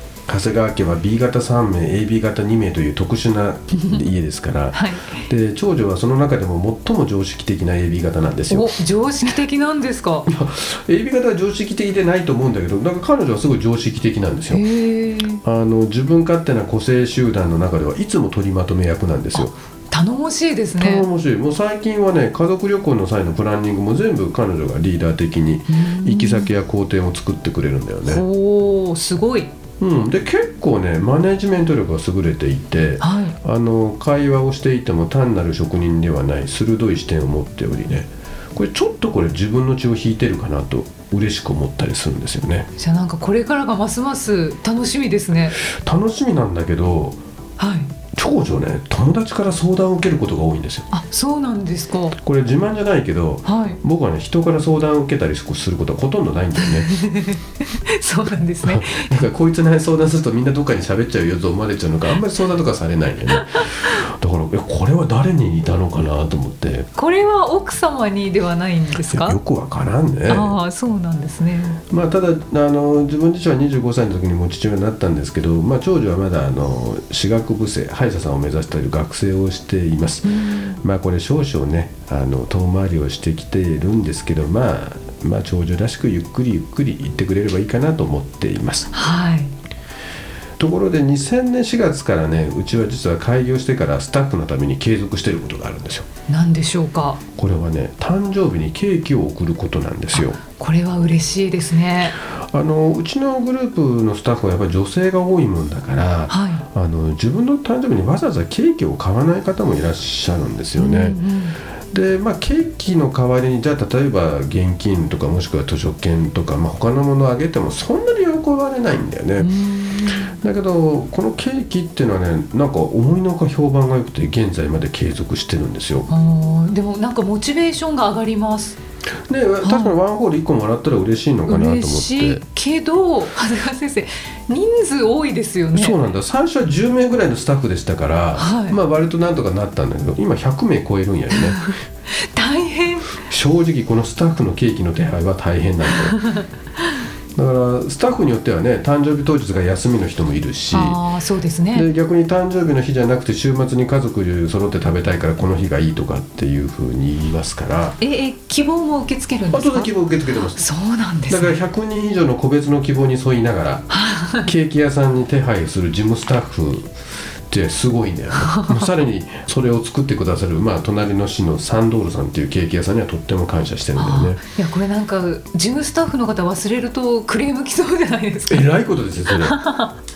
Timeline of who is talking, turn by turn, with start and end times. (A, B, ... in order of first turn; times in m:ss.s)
0:00.3-0:08.8 A
0:04.7-0:05.3 B
0:08.5-0:10.3 B
0:10.2-0:14.6 A
0:14.5-0:15.4 B
0:15.4-0:19.5 A
0:19.4-0:21.1 B
0:20.8-0:28.2 A
0:25.7-0:26.5 B
0:28.0-0:29.5 B
0:29.8-0:42.7 A
0:33.0-0:33.4 B
0:42.8-0:45.6 B
0:45.6-0:47.2 A
0:47.6-0:47.9 B
0:48.1-0:50.9 A
0:50.9-0:52.2 B
0:52.2-0:56.9 A
0:53.4-0:53.8 B
0:56.6-0:59.2 B
0:58.6-1:06.9 A
1:03.3-1:03.7 B
1:06.9-1:09.4 B
1:09.0-1:10.6 A
1:10.3-1:11.8 B
1:11.9-1:28.9 A
1:20.2-1:20.8 B
1:28.9-1:29.5 B
1:30.6-1:36.1 A
1:36.3-1:37.2 B
1:37.4-1:40.4 A
1:40.1-1:42.2 B
1:42.2-1:51.2 A
1:46.3-1:46.6 B
1:50.8-1:51.6 B
1:51.9-1:59.5 A
1:59.4-2:00.3 B
2:00.2-2:06.1 A
2:06.1-2:08.8 B
2:09.3-2:12.4 A
2:09.6-2:10.0 B
2:11.5-2:16.0 B
2:15.7-2:21.7 A
2:18.4-2:18.8 B
2:21.3-2:23.1 B
2:23.2-2:26.2 A
2:25.9-2:26.5 B
2:27.3-2:31.0 A
2:30.7-2:31.9 B
2:31.7-2:38.0 A
2:38.0-2:39.9 B
2:39.5-2:40.6 A
2:40.5-2:41.6 B
2:41.3-2:43.9 A
2:43.9-2:44.5 B
2:44.4-2:46.9 A
2:47.5-2:54.4 A
2:48.4-2:48.9 B
2:54.0-2:58.6 B
2:58.5-2:59.6 A
2:59.3-3:00.0 B